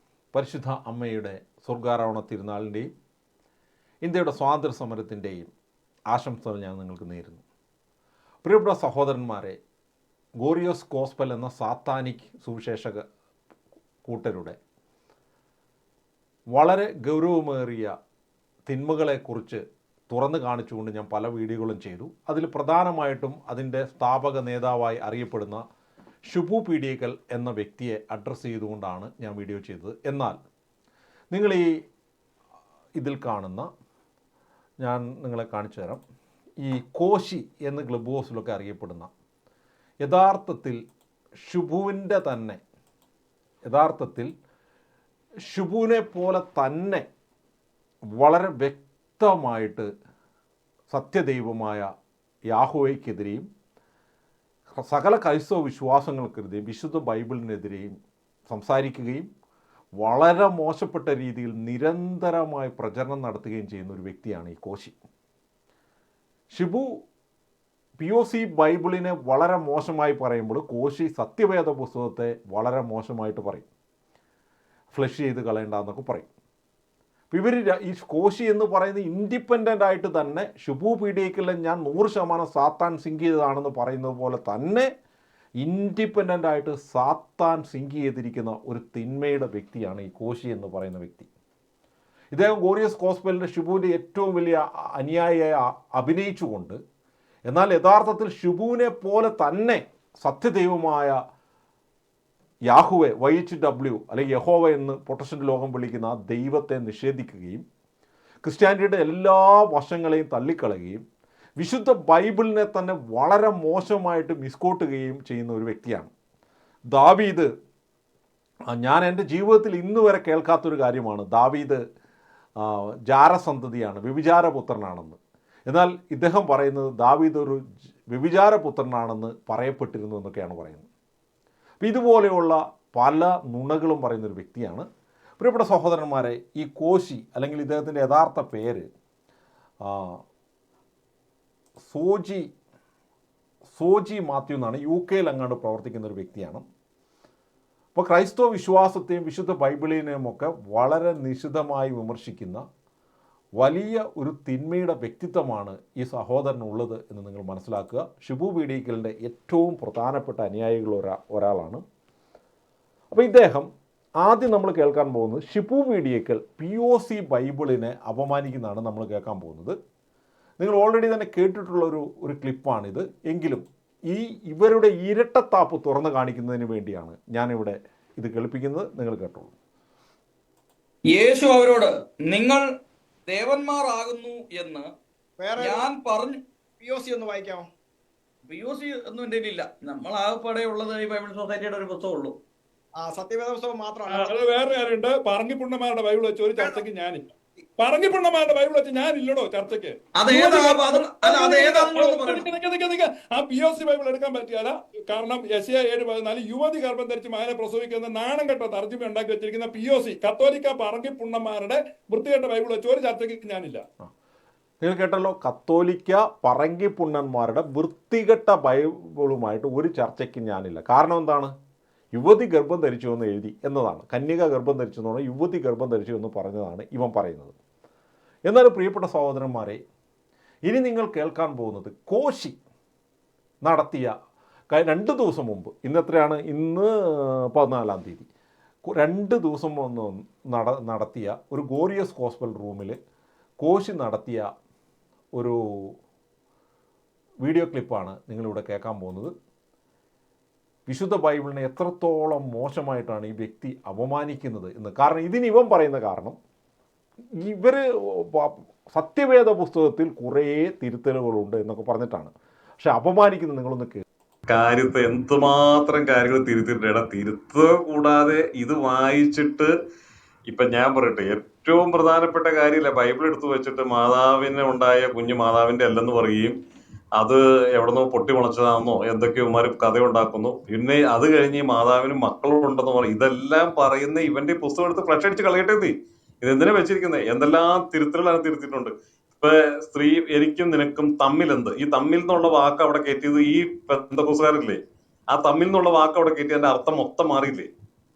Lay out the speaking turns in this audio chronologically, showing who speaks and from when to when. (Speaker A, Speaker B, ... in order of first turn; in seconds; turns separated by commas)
Speaker A: 0.3-2.9, Speaker A: 4.0-5.5, Speaker A: 6.1-7.4, Speaker A: 8.4-9.6, Speaker A: 10.4-13.0, Speaker A: 14.1-14.6, Speaker A: 16.5-17.9, Speaker A: 18.7-25.6, Speaker A: 26.3-30.4, Speaker A: 31.3-31.7, Speaker A: 33.0-33.7, Speaker A: 34.8-36.0, Speaker A: 36.6-39.1, Speaker A: 40.0-40.8, Speaker A: 41.5-42.6, Speaker A: 43.7-44.3, Speaker A: 45.5-47.1, Speaker A: 48.2-49.9, Speaker A: 50.9-51.9, Speaker A: 52.5-53.5, Speaker A: 54.8-58.0, Speaker A: 58.5-59.3, Speaker A: 60.0-65.0, Speaker A: 66.5-66.9, Speaker A: 68.0-73.7, Speaker A: 74.9-76.3, Speaker A: 77.3-84.9, Speaker A: 85.6-91.3, Speaker A: 92.3-96.8, Speaker A: 97.5-101.2, Speaker A: 102.7-107.6, Speaker A: 108.4-111.0, Speaker A: 111.6-116.1, Speaker A: 116.9-117.5, Speaker A: 118.7-121.8, Speaker A: 122.6-130.9, Speaker A: 131.8-134.8, Speaker A: 135.4-138.9, Speaker A: 139.8-140.2, Speaker A: 141.8-142.5, Speaker A: 143.7-146.7, Speaker A: 147.9-152.6, Speaker A: 153.6-161.8, Speaker A: 163.1-163.7, Speaker A: 164.2-169.8, Speaker A: 170.6-179.5, Speaker B: 181.1-182.6, Speaker B: 183.3-184.9, Speaker C: 185.4-185.9, Speaker B: 185.6-186.4, Speaker C: 186.8-187.7, Speaker B: 188.5-192.4, Speaker C: 193.0-194.4, Speaker D: 194.1-197.2, Speaker C: 196.6-196.8, Speaker D: 197.8-213.8, Speaker B: 200.2-202.4, Speaker A: 214.8-221.5, Speaker A: 222.2-227.5, Speaker A: 228.5-229.8, Speaker A: 230.7-232.6, Speaker A: 233.7-234.1, Speaker A: 234.7-238.3, Speaker A: 238.9-243.0, Speaker A: 243.6-244.5, Speaker A: 245.3-245.9, Speaker A: 247.4-249.3, Speaker A: 250.9-256.4, Speaker A: 257.4-264.0, Speaker E: 264.5-269.7, Speaker E: 270.5-276.5, Speaker E: 277.2-294.8, Speaker E: 295.3-297.7